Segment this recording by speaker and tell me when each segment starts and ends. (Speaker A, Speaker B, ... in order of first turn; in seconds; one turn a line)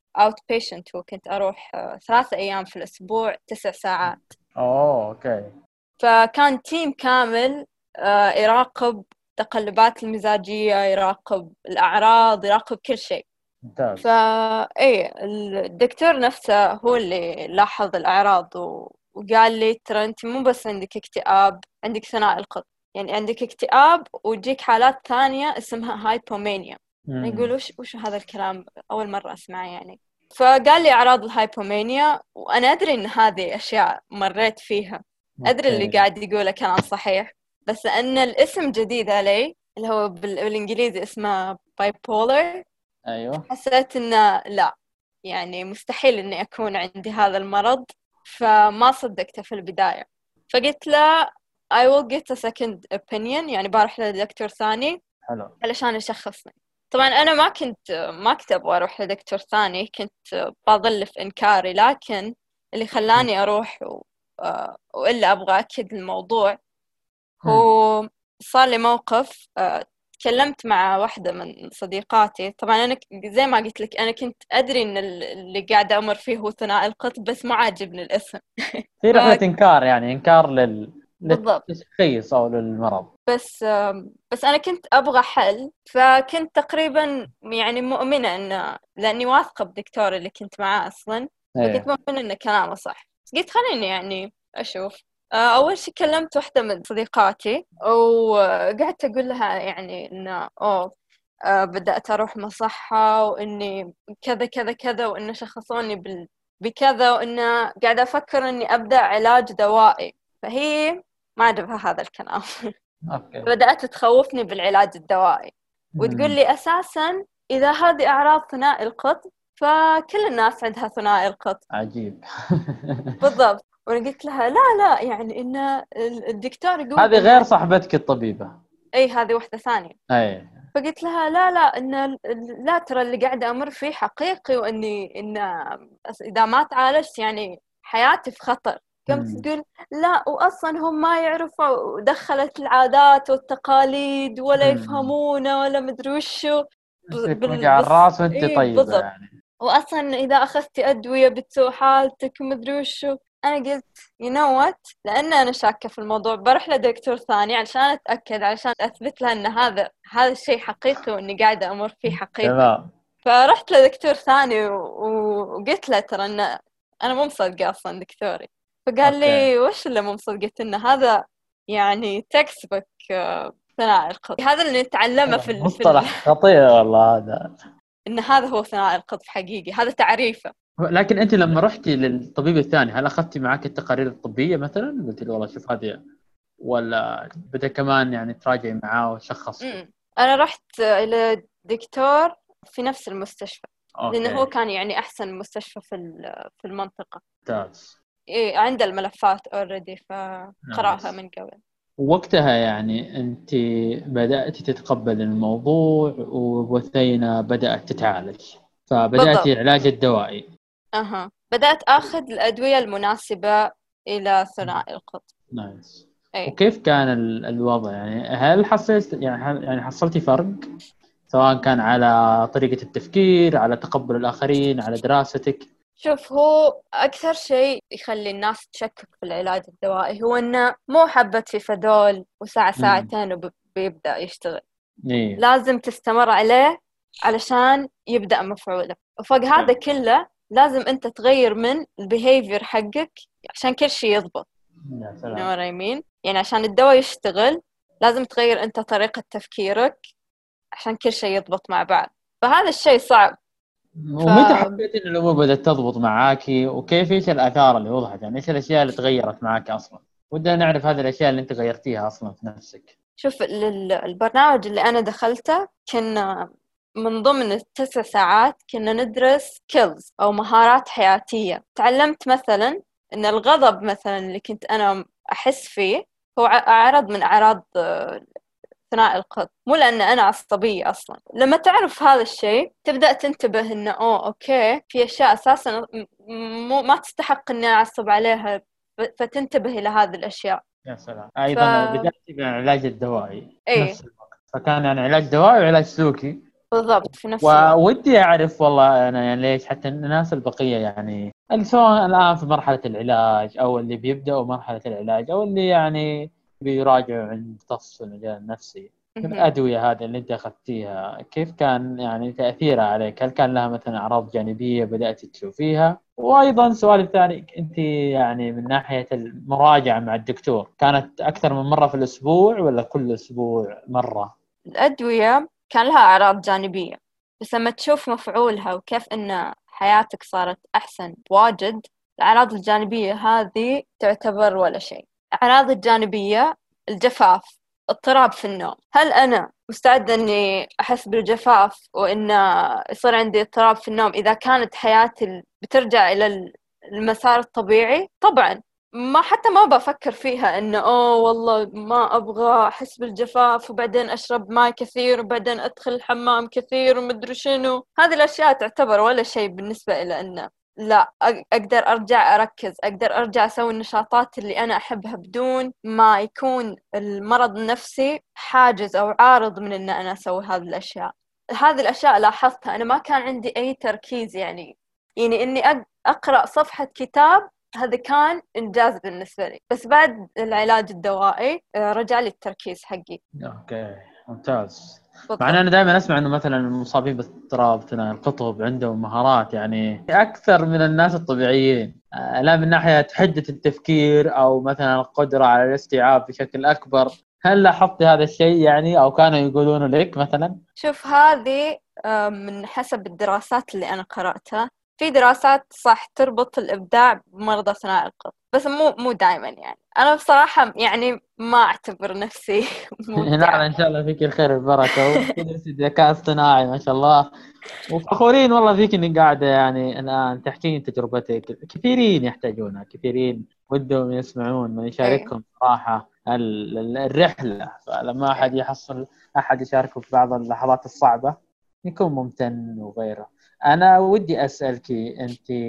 Speaker A: 0.2-4.3
Speaker B: 4.1-5.5
Speaker A: 6.0-13.2
Speaker B: 13.6-14.1
Speaker A: 14.0-42.6
Speaker B: 27.1-27.5
Speaker B: 35.4-36.0
Speaker B: 43.1-43.5
Speaker A: 43.5-44.7
Speaker A: 45.3-51.0
Speaker A: 51.8-55.0
Speaker B: 55.3-55.5
Speaker A: 55.6-66.6
Speaker A: 67.5-78.4
Speaker B: 79.0-83.1
Speaker A: 79.1-79.4
Speaker A: 81.3-81.7
Speaker A: 83.3-100.9
Speaker B: 91.6-91.9
Speaker A: 101.5-112.5
Speaker B: 113.1-113.5
Speaker A: 113.5-121.6
Speaker B: 116.0-116.4
Speaker B: 121.7-122.2
Speaker A: 123.2-127.5
Speaker B: 127.0-128.5
Speaker A: 129.0-130.0
Speaker B: 130.1-130.6
Speaker A: 130.8-132.1
Speaker A: 132.7-135.5
Speaker A: 136.3-146.6
Speaker B: 139.1-139.4
Speaker B: 144.6-145.1
Speaker B: 147.1-149.3
Speaker A: 147.2-149.0
Speaker A: 149.6-162.6
Speaker B: 162.1-162.8
Speaker A: 163.2-166.5
Speaker A: 167.0-171.1
Speaker B: 169.1-169.5
Speaker A: 171.7-173.0
Speaker A: 173.7-176.1
Speaker B: 175.3-177.5
Speaker A: 178.1-180.5
Speaker B: 180.8-186.0
Speaker B: 186.6-189.8
Speaker A: 189.6-196.1
Speaker B: 194.0-194.5
Speaker A: 196.6-197.2
Speaker B: 197.5-197.9
Speaker A: 198.3-201.6
Speaker B: 200.7-201.1
Speaker B: 202.0-203.6
Speaker B: 204.1-210.4
Speaker A: 209.2-209.5
Speaker A: 211.0-213.6
Speaker A: 214.1-215.3
Speaker B: 215.5-220.6
Speaker B: 221.3-225.6
Speaker A: 226.0-234.6
Speaker B: 232.8-233.1
Speaker B: 235.1-235.4
Speaker A: 235.4-236.7
Speaker A: 237.3-244.5
Speaker B: 244.9-245.5
Speaker A: 245.3-250.0
Speaker A: 250.8-253.3
Speaker B: 254.1-262.9
Speaker A: 254.3-254.8
Speaker A: 263.2-266.2
Speaker A: 267.0-278.2
Speaker A: 278.9-290.6
Speaker B: 290.9-296.3
Speaker A: 291.5-292.1
Speaker A: 293.7-294.0
Speaker A: 296.7-297.7
Speaker B: 297.4-306.1
Speaker B: 306.6-324.3
Speaker A: 309.2-309.5
Speaker A: 324.8-342.4
Speaker A: 342.9-346.3
Speaker A: 347.0-383.2
Speaker B: 383.4-400.6
Speaker A: 385.3-385.6
Speaker A: 400.8-413.6
Speaker B: 413.2-417.3
Speaker A: 414.9-415.3
Speaker B: 417.9-431.3
Speaker A: 425.0-425.3
Speaker B: 431.9-435.6